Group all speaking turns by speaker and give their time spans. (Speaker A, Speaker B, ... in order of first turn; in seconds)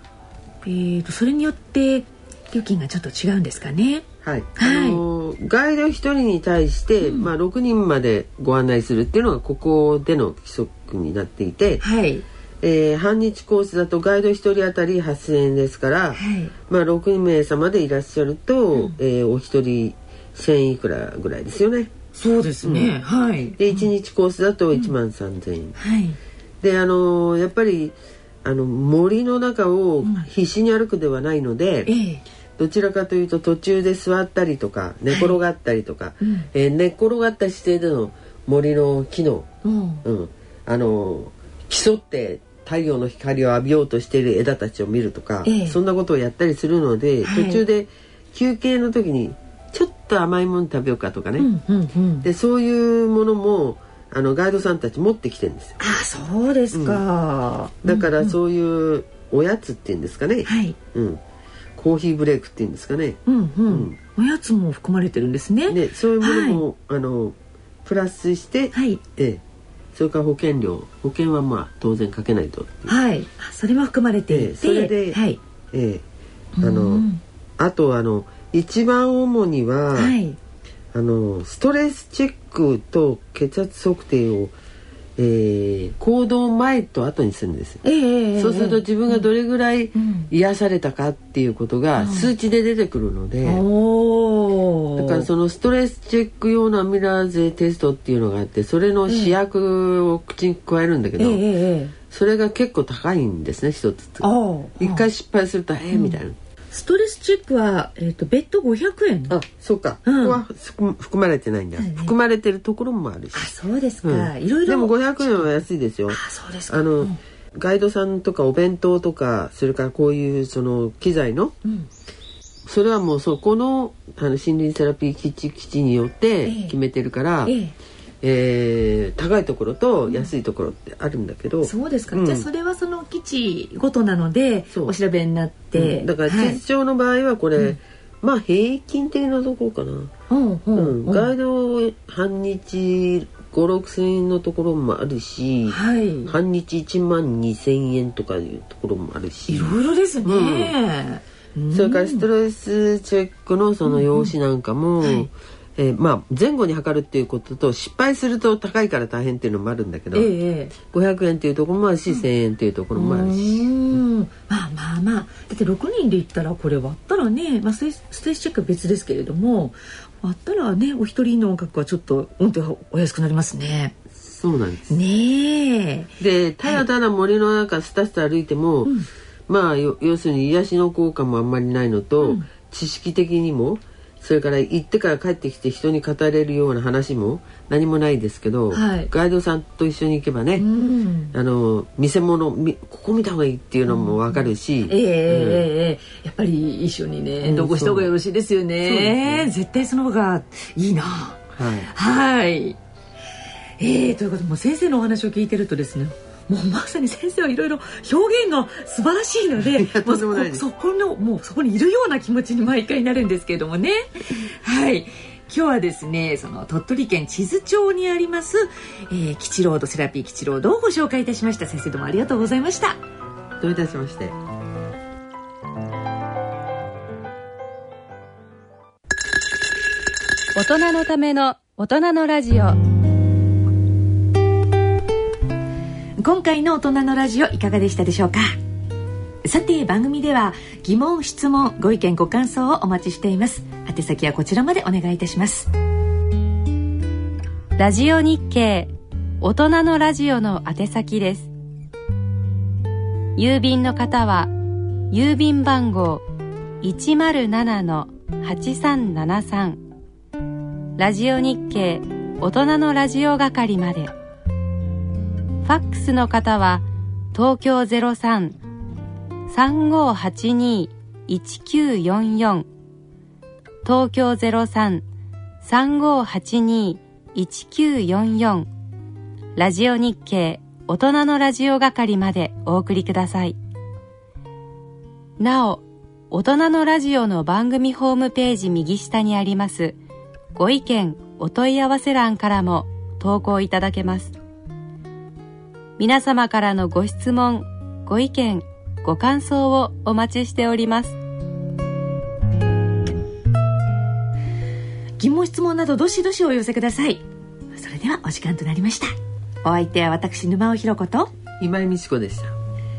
Speaker A: 0.6-5.0, 7.0-7.3, 11.8-12.2, 16.1-16.5, 22.1-23.9, 25.8-26.2, 30.0-30.3, 31.9-32.2, 35.1-35.4, 36.2-36.5, 39.6-40.0, 45.4-45.8, 47.2-47.6, 51.4-52.3, 55.8-58.4, 60.4-60.8, 63.2-66.6, 68.7-69.0, 72.9-75.4, 76.5-77.2, 79.9-80.4, 87.8-89.3, 89.9-90.3, 92.0-92.3, 93.4-95.3, 99.1-99.3, 101.2-101.9, 104.2-105.1, 105.9-106.2, 106.7-109.4, 110.0-110.4, 111.8-112.1, 113.3-115.5, 116.1-117.2, 126.4-126.8, 127.4-127.7, 131.6-136.6, 140.3-141.3, 145.7-146.3, 149.5-152.2, 153.8-154.3, 155.0-155.3, 160.1-160.7, 162.9-174.0, 174.9-176.8, 182.2-182.5, 188.7-189.1, 190.6-191.3, 193.9-202.8, 203.8-223.0, 236.2-238.5, 239.4-245.7, 305.2-311.3
Speaker B: 4.2-11.8, 12.6-21.9, 22.6-22.9, 23.6-25.8, 26.6-31.9, 32.6-39.5, 40.0-51.5, 52.2-55.8, 56.7-57.0, 57.8-61.2, 61.8-63.9, 65.7-69.4, 69.9-72.9, 74.3-75.2, 75.7-76.0, 76.6-77.1, 77.6-80.2, 80.9-84.5, 85.2-87.8, 88.4-93.6, 95.0-101.4, 102.1-104.3, 104.8-106.3, 109.3-121.5, 122.7-127.5, 128.2-132.5, 135.7-140.1, 140.7-150.7, 151.7-164.0, 174.3-175.0, 176.2-178.9, 179.5-190.7, 191.3-195.7, 197.4-198.1, 198.8-199.5, 201.5-201.9, 209.6-210.6, 223.6-224.3, 311.6-312.5
Speaker C: 230.5-232.8, 247.8-251.5, 253.4-254.5, 255.1-256.2, 256.8-259.8, 261.0-264.1, 265.6-268.6, 269.5-272.6, 273.8-275.0, 275.6-278.7, 279.6-283.6, 285.4-289.9, 290.5-294.3, 296.0-301.1